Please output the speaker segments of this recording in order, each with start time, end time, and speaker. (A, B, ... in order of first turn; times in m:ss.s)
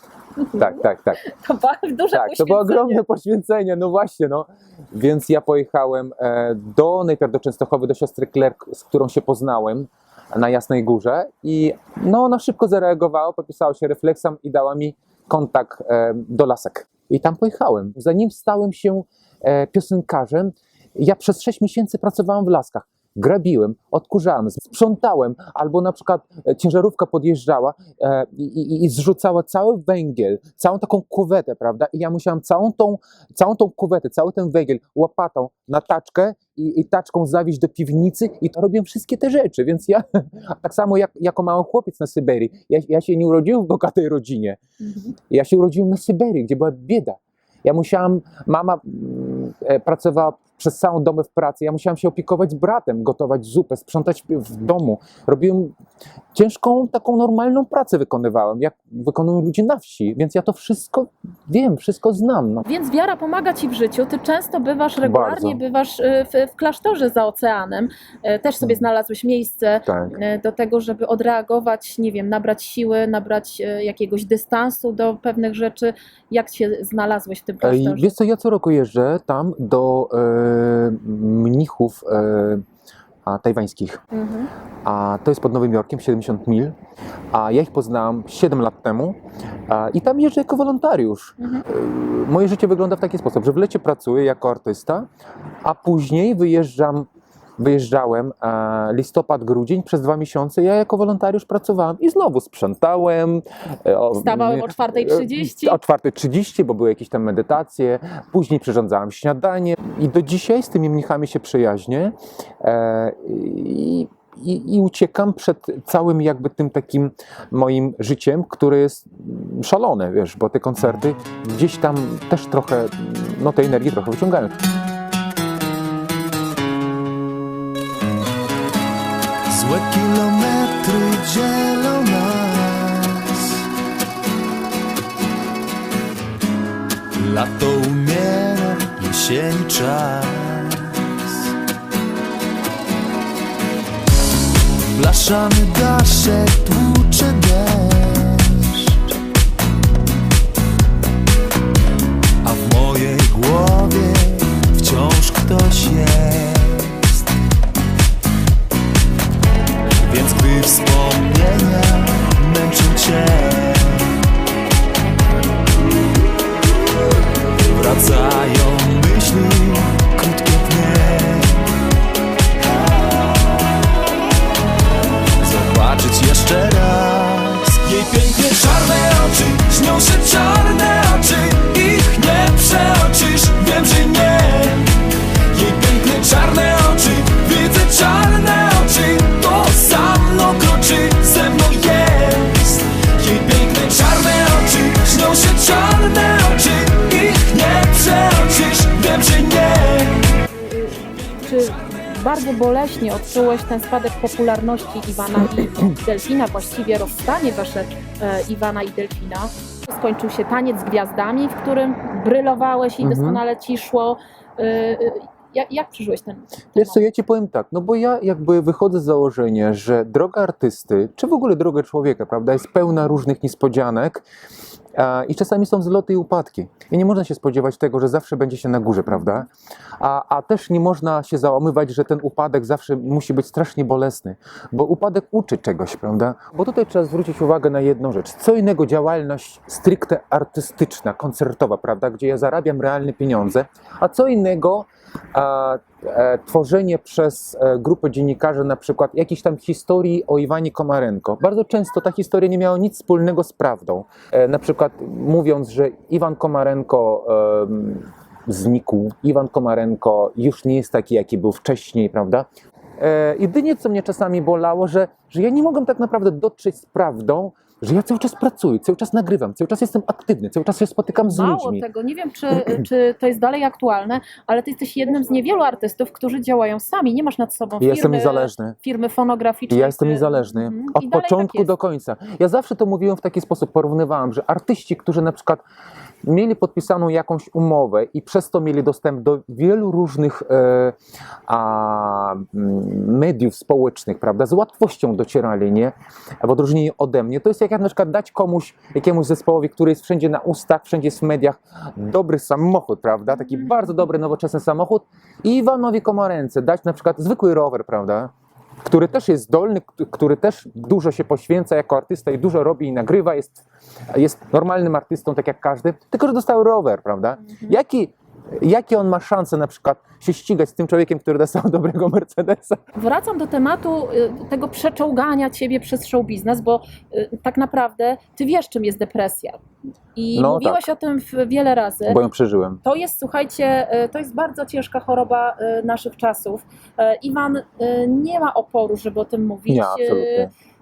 0:00.4-0:03.0 A
0:00.6-0:01.2 B
0:02.1-0:44.6 B
0:44.8-0:45.1 A
0:45.2-0:55.8 B
0:56.3-1:02.7 B
1:02.7-1:18.2 A
1:05.0-1:05.6 B
1:09.9-1:10.2 B
1:17.6-1:22.6 B
1:23.2-1:24.0 B
1:24.1-1:24.5 A
1:24.8-1:26.8 B
1:27.3-1:35.1 B
1:31.4-1:31.7 A
1:35.6-2:04.6 B
1:44.2-1:45.8 A
2:09.6-2:13.4 C
2:17.2-2:21.0 C
2:25.0-2:28.8 C
2:25.9-2:26.3 B
2:32.5-2:36.9 C
2:33.3-2:33.8 B
2:34.8-2:35.8 B
2:40.1-2:41.4 B
2:40.2-2:44.1 C
2:43.2-2:43.5 B
2:47.8-2:51.6 C
2:55.4-3:04.9 C
3:05.5-3:20.2 C
3:20.5-3:37.0 A
3:33.0-3:33.4 B
3:36.8-3:44.2 B
3:45.0-4:22.5 B
4:23.0-4:31.8 B
4:31.3-4:41.7 A
4:32.6-4:32.8 B
4:37.8-4:38.8 B
4:39.7-4:45.6 B
4:46.2-4:51.0 B
4:51.5-5:08.3 B
5:08.8-5:22.8 B
5:17.5-5:17.8 A
5:23.0-5:29.6 A
5:30.2-5:32.2 A
5:30.3-5:30.8 B
5:32.1-5:32.8 B
5:32.8-5:40.5 A
5:39.7-5:40.5 B